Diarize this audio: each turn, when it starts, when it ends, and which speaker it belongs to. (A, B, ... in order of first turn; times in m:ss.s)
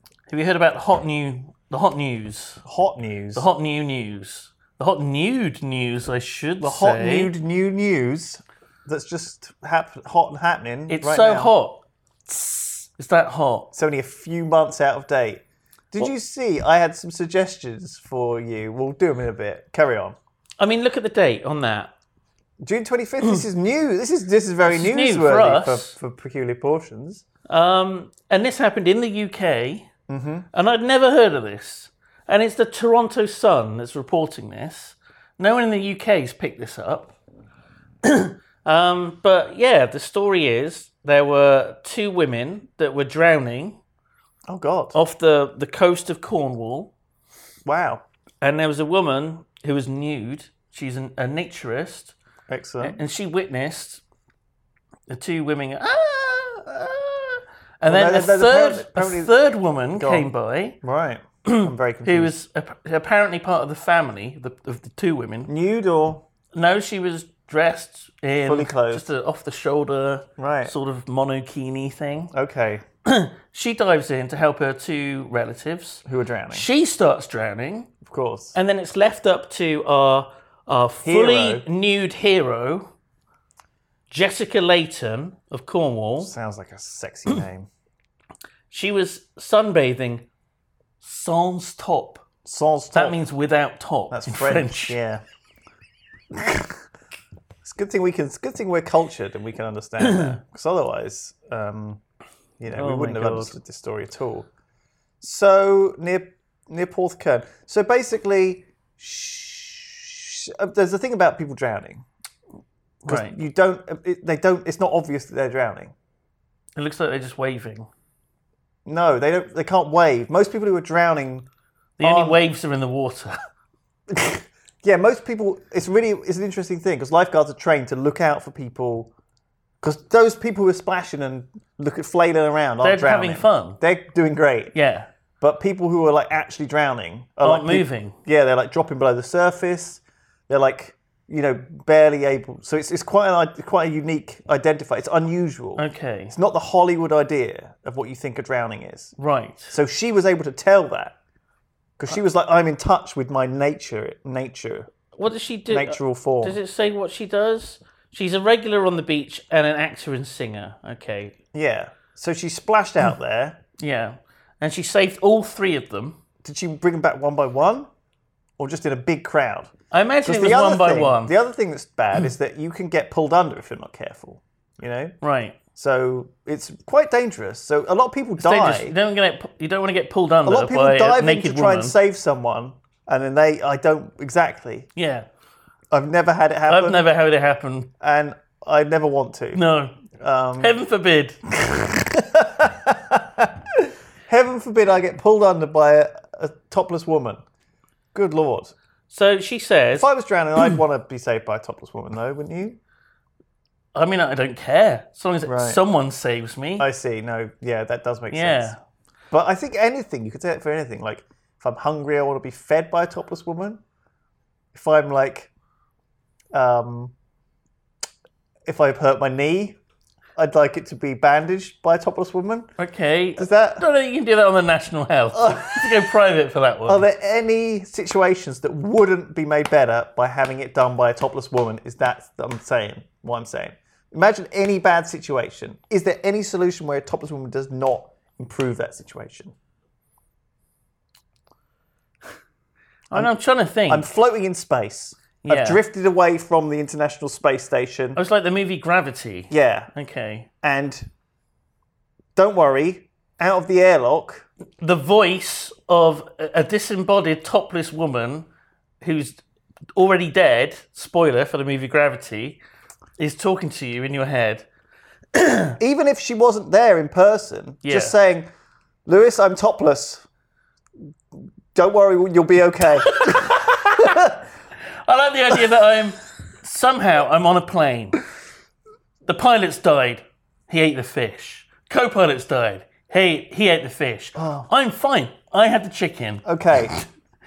0:00.3-0:02.6 A
0:02.6-0:03.5 B
0:03.3-0:07.3 A
0:06.6-0:11.5 B
0:10.9-0:13.7 A
0:13.7-0:20.2 B
0:20.6-0:21.9 A
0:22.6-0:27.2 B
0:24.6-0:25.9 A
0:27.5-0:29.9 A
0:30.1-0:30.5 B
0:30.5-0:37.2 A
0:38.0-0:43.8 A
0:44.5-0:45.0 B
0:44.9-0:46.9 A
0:47.6-0:48.0 B
0:48.4-0:52.1 A
0:52.5-0:53.0 B
0:52.8-0:54.0 A
0:55.1-1:00.8 A
0:57.8-0:59.3 B
0:59.9-1:00.3 B
1:00.8-1:02.3 B
1:01.4-1:05.5 A
1:05.5-1:06.2 B
1:06.5-1:12.3 A
1:08.4-1:09.0 B
1:10.4-1:10.7 B
1:12.3-1:12.8 B
1:13.0-1:17.9 A
1:16.0-1:16.7 B
1:18.0-1:18.6 B
1:18.5-1:22.9 A
1:21.0-1:21.6 B
1:24.1-1:26.3 A
1:26.2-1:27.7 B
1:28.7-1:30.2 A
1:31.0-1:32.3 A
1:32.4-1:33.2 B
1:32.9-1:35.0 A
1:34.1-1:35.2 B
1:36.3-1:36.7 B
1:37.6-1:42.0 B
1:40.0-1:40.4 A
1:42.6-1:44.5 B
1:42.7-1:43.5 A
1:45.2-1:52.0 B
1:53.0-1:53.4 A
1:53.0-1:55.9 B
1:56.8-1:57.9 A
1:58.8-2:01.5 B
2:02.0-2:03.4 A
2:02.0-2:02.4 B
2:04.1-2:09.1 B
2:09.8-2:14.7 B
2:12.8-2:13.8 A
2:14.7-2:15.1 A
2:15.4-2:29.1 B
2:17.4-2:18.2 A
2:25.8-2:26.3 A
2:29.2-2:29.7 A
2:29.7-2:31.2 B
2:32.0-2:34.9 B
2:35.1-2:41.4 A
2:35.7-2:36.6 B
2:41.5-2:43.6 B
2:43.8-2:46.2 A
2:46.4-2:47.9 B
2:48.6-2:49.7 B
2:49.9-2:51.3 A
2:50.2-2:55.2 B
2:55.2-2:55.6 A
2:55.7-2:58.9 B
2:58.4-3:02.0 A
3:00.4-3:04.9 B
3:05.0-3:05.2 A
3:05.9-3:07.1 B
3:06.7-3:07.9 A
3:08.0-3:10.8 B
3:09.5-3:10.0 A
3:10.6-3:11.4 A
3:11.6-3:17.4 B
3:18.1-3:18.7 B
3:19.1-3:20.1 A
3:20.0-3:22.8 B
3:23.9-3:26.9 A
3:25.4-3:25.8 B
3:26.8-3:28.7 B
3:28.3-3:28.8 A
3:29.3-3:33.8 B
3:34.7-3:35.5 B
3:36.5-3:37.1 B
3:38.6-3:39.8 B
3:40.4-3:42.7 B
3:42.8-3:47.0 A
3:43.4-3:43.8 B
3:45.3-3:45.9 B
3:46.9-3:59.5 B
4:03.1-4:04.1 A
4:03.9-4:08.2 B
4:05.4-4:05.8 A
4:08.1-4:10.5 A
4:09.5-4:09.9 B
4:10.6-4:11.1 B
4:12.4-4:14.5 B
4:14.8-4:18.4 A
4:19.0-4:19.4 A
4:20.0-4:22.6 A
4:23.2-4:24.6 A
4:25.3-4:25.8 A
4:25.8-4:28.5 B
4:27.8-4:28.2 A
4:29.0-4:30.2 B
4:31.7-4:34.4 B
4:33.1-4:34.2 A
4:35.0-4:38.2 A
4:39.2-4:46.4 A
4:44.4-4:44.7 B
4:46.4-4:46.9 B